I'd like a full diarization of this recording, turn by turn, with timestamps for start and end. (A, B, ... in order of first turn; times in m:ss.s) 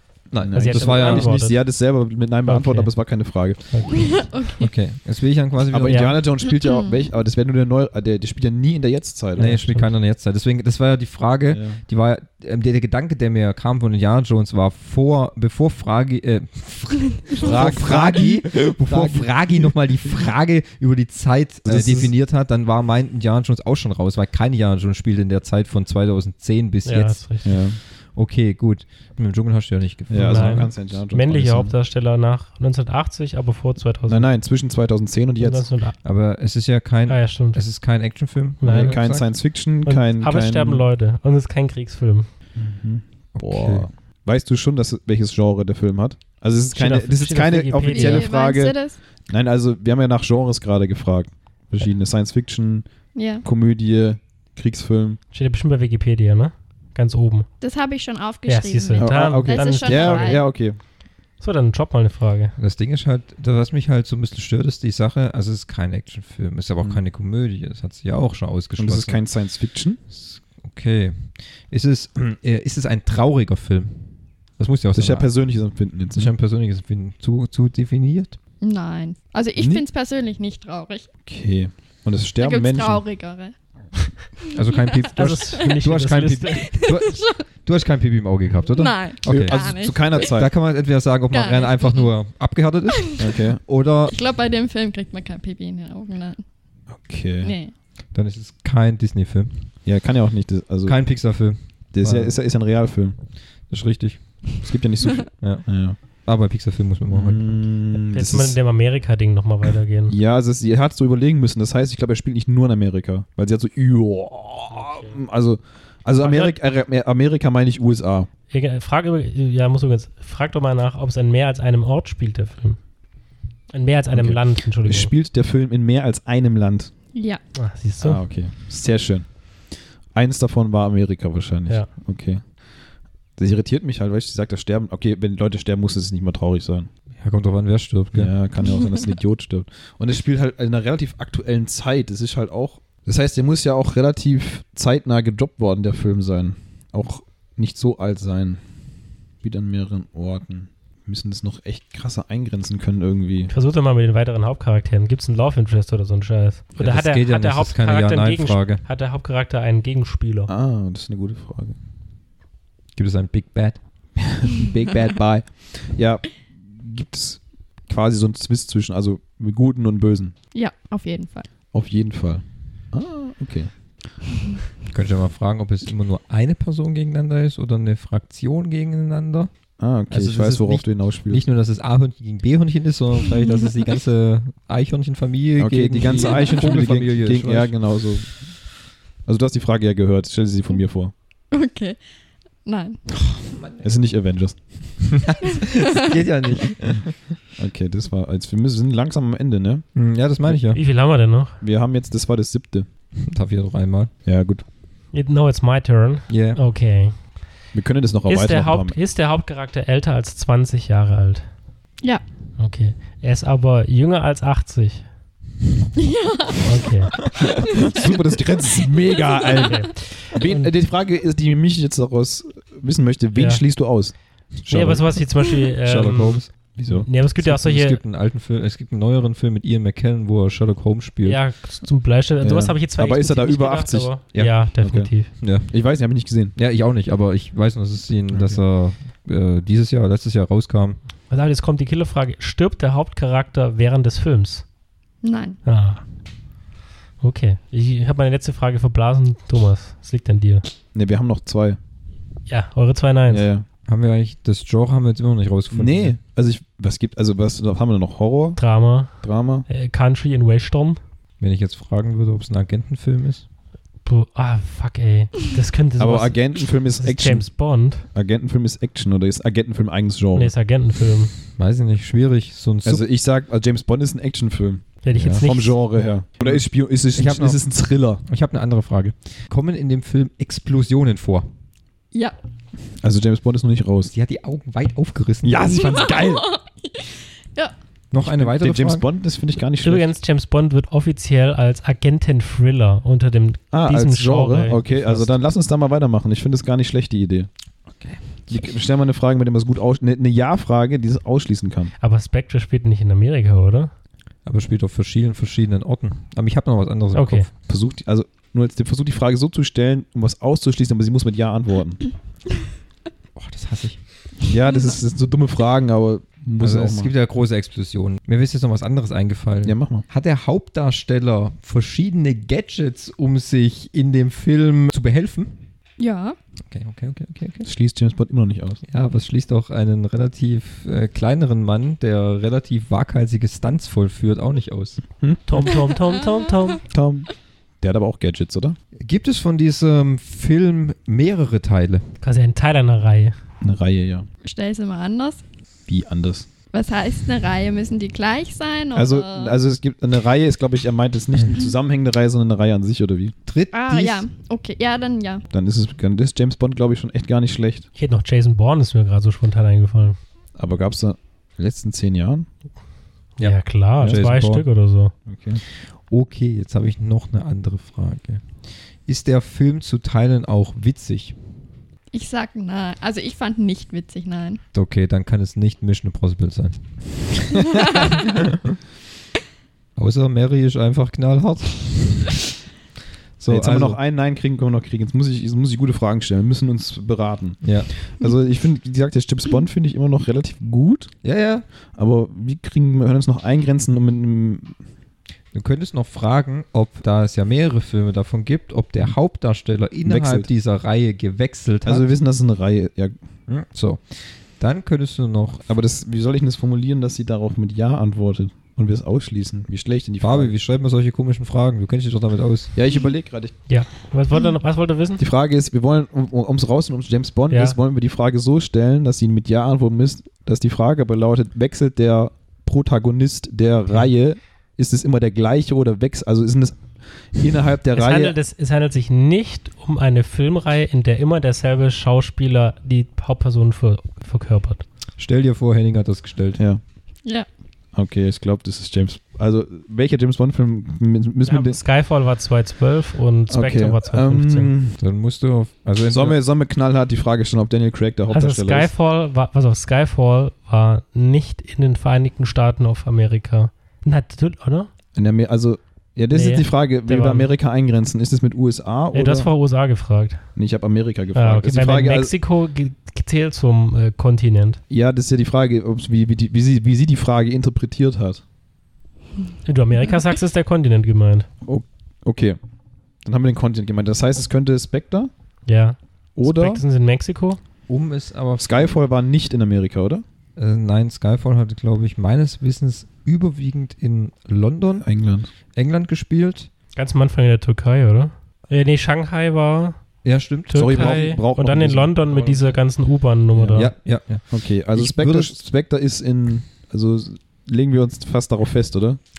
0:00.3-0:04.1 A
0:00.3-0:01.3 B
0:00.5-0:01.7 C
0:02.4-0:02.9 C
0:03.7-0:04.2 C
0:04.0-0:04.7 D
0:04.6-0:06.1 B
0:05.7-0:09.9 A
0:05.8-0:06.1 C
0:06.4-0:07.0 D
0:09.4-0:30.9 B
0:11.5-0:11.8 A
0:17.4-0:20.1 A
0:21.6-0:22.1 A
0:26.8-0:27.5 C
0:27.4-0:27.8 A
0:30.1-0:31.7 A
0:30.2-0:34.3 C
0:34.1-0:35.6 A
0:35.4-0:36.0 C
0:36.0-0:39.3 B
0:37.1-0:37.6 C
0:38.6-0:39.2 C
0:38.6-0:40.8 A
0:39.8-0:42.3 C
0:42.5-0:48.8 A
0:43.4-0:43.9 B
0:46.7-0:48.3 C
0:47.8-0:49.0 D
0:49.3-0:52.9 A
0:53.1-0:53.4 D
0:53.4-0:55.2 A
0:55.3-0:57.5 C
0:57.6-1:00.4 D
0:58.5-1:00.5 C
0:59.0-1:00.8 A
1:01.4-1:02.5 C
1:02.6-1:09.2 B
1:08.8-1:10.0 A
1:10.1-1:14.0 B
1:14.6-1:15.3 B
1:14.9-1:16.3 A
1:16.1-1:18.4 B
1:18.6-1:21.1 D
1:19.6-1:19.8 A
1:21.2-1:23.0 A
1:22.4-1:23.5 D
1:24.5-1:34.1 B
1:25.2-1:26.8 C
1:25.2-1:25.7 D
1:26.5-1:27.4 D
1:28.7-1:30.2 D
1:29.2-1:30.6 A
1:31.3-1:32.1 D
1:33.2-1:33.6 A
1:34.1-1:36.4 D
1:36.9-1:37.5 A
1:37.4-1:37.7 D
1:38.1-1:39.7 B
1:39.8-1:43.2 A
1:40.8-1:42.4 B
1:43.7-1:44.6 B
1:44.6-1:46.0 A
1:45.4-1:47.7 B
1:47.1-1:48.6 A
1:48.0-1:50.1 C
1:50.1-1:58.3 A
1:54.7-1:55.2 C
1:56.2-1:56.6 C
1:58.5-2:02.8 C
2:03.7-2:05.1 C
2:04.1-2:06.9 A
2:07.1-2:07.4 D
2:07.5-2:08.2 C
2:08.0-2:09.4 A
2:10.1-2:12.4 A
2:13.4-2:16.9 A
2:17.2-2:18.3 B
2:18.1-2:28.6 A
2:29.4-2:33.5 A
2:33.5-2:40.5 C
2:36.8-2:38.8 B
2:40.5-2:41.8 A
2:42.9-2:43.8 B
2:44.2-2:50.3 A
2:50.5-2:51.5 D
2:51.7-2:53.7 A
2:54.9-3:07.7 B
2:59.8-3:01.4 A
3:05.6-3:08.7 A
3:09.2-3:11.1 A
3:11.5-3:12.0 D
3:12.6-3:13.0 D
3:13.8-3:14.9 A
3:15.3-3:17.1 B
3:17.6-3:19.9 A
3:19.9-3:20.8 B
3:20.7-3:21.6 C
3:21.6-3:22.9 A
3:23.2-3:24.1 B
3:24.2-3:24.6 A
3:25.1-3:27.3 C
3:26.3-3:26.6 B
3:27.7-3:29.0 A
3:28.3-3:31.5 C
3:32.6-3:35.1 C
3:36.0-3:36.8 D
3:36.6-3:37.1 C
3:37.7-3:45.2 A
3:39.7-3:40.7 C
3:43.3-3:43.6 C
3:44.7-3:48.0 C
3:45.8-3:47.1 A
3:46.0-3:51.4 B
3:51.2-3:55.3 C
3:52.4-3:56.5 A
3:54.3-3:54.7 B
3:55.4-3:55.8 B
3:56.5-4:01.0 B
3:58.3-3:58.6 A
4:01.3-4:04.7 C
4:05.2-4:05.6 D
4:05.6-4:06.0 C
4:07.2-4:10.6 C
4:10.9-4:11.8 A
4:12.5-4:13.5 C
4:13.3-4:13.6 A
4:13.8-4:16.2 B
4:15.7-4:18.6 A
4:18.6-4:21.0 C
4:19.2-4:19.6 A
4:21.4-4:23.4 B
4:24.0-4:28.0 C
4:26.0-4:30.5 A
4:30.3-4:31.3 C
4:31.5-4:33.0 B
4:32.8-4:38.2 A
4:35.0-4:36.2 C
4:35.1-4:35.4 B
4:37.1-4:41.5 B
4:43.0-4:44.1 A
4:44.1-4:45.7 B
4:45.4-4:46.4 A
4:45.7-4:47.7 D
4:48.1-4:49.0 B
4:48.1-4:50.2 A
4:49.8-4:55.3 C
4:53.7-4:57.5 A
4:57.9-4:58.2 B
4:58.5-5:01.9 A
5:02.0-5:03.9 C
5:04.4-5:07.5 B
5:07.1-5:07.5 C
5:07.7-5:12.0 A
5:13.4-5:14.0 B
5:14.4-5:17.1 A
5:16.6-5:25.6 B
5:19.6-5:20.0 A
5:26.0-5:26.4 D
5:26.7-5:27.7 B
5:27.6-5:28.8 A
5:28.9-5:35.0 B
5:35.5-5:36.8 C
5:36.9-5:37.3 A
5:37.8-5:38.8 A
5:39.0-5:42.1 B
5:42.2-5:43.4 C
5:43.6-5:44.2 A
5:44.4-5:45.4 D
5:45.9-5:46.5 A
5:46.7-5:49.6 D
5:48.9-5:53.3 A
5:53.5-5:54.2 B
5:53.7-5:55.4 D
5:55.5-5:57.9 A
5:58.0-6:00.2 C
6:00.6-6:02.5 A
6:03.4-6:04.6 B
6:03.4-6:05.1 C
6:05.3-6:05.6 A
6:05.8-6:08.4 B
6:09.0-6:11.4 B
6:12.1-6:14.6 D
6:14.7-6:16.8 B
6:17.6-6:18.6 B
6:20.0-6:22.4 B
6:23.4-6:24.0 B
6:23.5-6:31.1 A
6:27.6-6:27.9 B
6:31.2-6:31.6 B
6:32.0-6:34.8 A
6:35.5-6:42.1 B
6:40.0-6:40.5 A
6:41.8-6:43.2 A
6:43.5-6:45.7 B
6:45.6-6:50.5 A
6:50.2-6:52.7 B
6:52.7-6:53.6 A
6:53.7-6:55.2 C
6:55.2-7:08.4 A
6:57.5-6:57.8 C
7:07.9-7:14.8 C
7:15.2-7:16.6 B
7:16.6-7:16.8 A
7:17.9-7:21.8 A
7:21.4-7:24.7 C
7:23.5-7:25.0 A
7:25.0-7:26.4 B
7:26.0-7:28.9 A
7:28.3-7:34.9 C
7:35.1-7:39.5 A
7:36.3-7:37.5 C
7:39.1-7:40.4 C
7:40.6-7:42.3 A
7:41.3-7:44.8 C
7:44.9-7:48.4 A
7:49.6-7:51.5 C
7:51.6-7:52.6 A
7:53.2-7:55.3 A
7:55.6-7:57.6 C
7:56.4-7:56.8 A
7:57.9-7:58.9 B
7:58.6-8:00.2 A
8:00.6-8:05.1 B
8:05.0-8:05.5 A
8:05.7-8:06.7 B
8:06.9-8:10.0 C
8:10.2-8:11.4 B
8:10.7-8:13.9 C
8:10.7-8:12.7 A
8:13.6-8:13.9 A
8:13.7-8:15.6 B
8:14.5-8:19.2 A